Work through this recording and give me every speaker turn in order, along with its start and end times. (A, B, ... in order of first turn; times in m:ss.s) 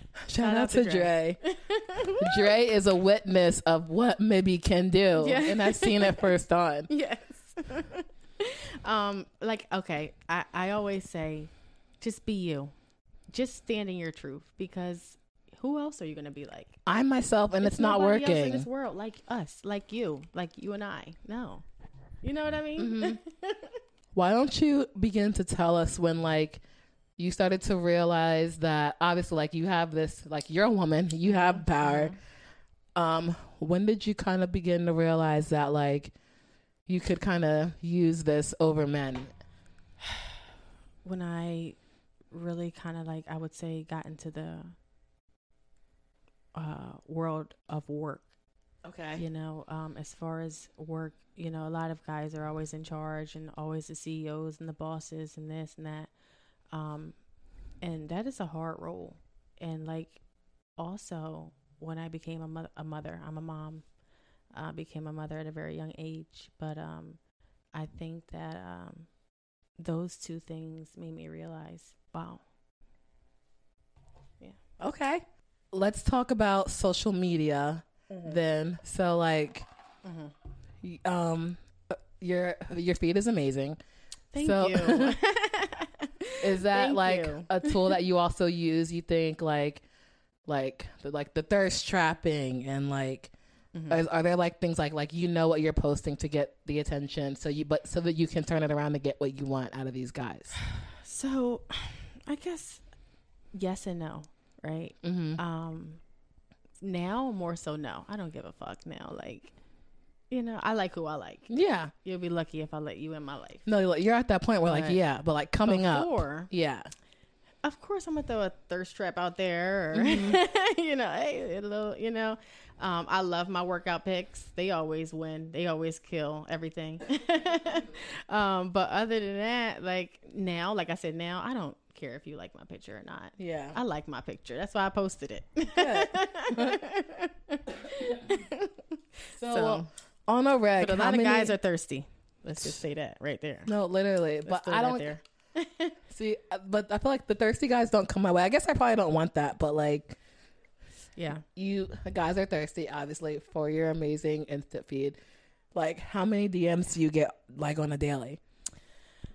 0:00.2-0:01.4 A
0:00.4-0:02.5 B
0:02.2-0:06.9 A
0:05.2-0:06.3 B
0:06.9-0:12.7 B
0:13.3-0:16.8 B
0:16.8-0:18.7 A
0:17.6-0:21.6 B
0:22.2-0:23.8 B
0:22.8-0:23.2 A
0:24.1-0:26.6 A
0:27.2-0:32.1 A
0:31.2-0:32.2 B
0:32.9-0:36.1 A
0:36.9-0:39.3 A
0:41.0-0:41.8 B
0:42.3-0:44.7 B
0:46.5-0:48.3 B
0:48.8-0:49.2 A
0:49.2-0:56.1 B
0:56.7-0:57.2 B
0:57.8-1:00.2 B
1:00.8-1:03.8 B
1:04.5-1:07.2 B
1:07.7-1:09.1 B
1:09.8-1:12.4 B
1:14.8-1:19.7 A
1:18.1-1:18.4 B
1:20.0-1:20.3 B
1:20.8-1:23.8 A
1:24.3-1:28.0 B
1:24.4-1:25.2 A
1:26.4-1:29.8 A
1:30.5-1:33.3 A
1:33.7-1:34.0 B
1:33.9-1:40.5 A
1:41.0-1:42.8 B
1:43.5-1:46.0 B
1:45.0-1:45.4 A
1:46.8-1:49.5 B
1:50.3-1:53.7 B
1:51.5-1:51.9 A
1:53.6-1:56.9 A
1:54.6-1:55.0 B
1:55.6-1:56.5 B
1:57.6-2:19.9 B
1:59.9-2:00.4 A
2:13.4-2:13.8 A
2:15.8-2:16.8 A
2:19.4-2:21.6 A
2:20.8-2:23.7 B
2:23.7-2:25.1 A
2:24.4-2:26.0 B
2:26.1-2:30.2 A
2:31.2-2:31.4 B
2:31.5-2:35.2 A
2:35.7-2:38.4 A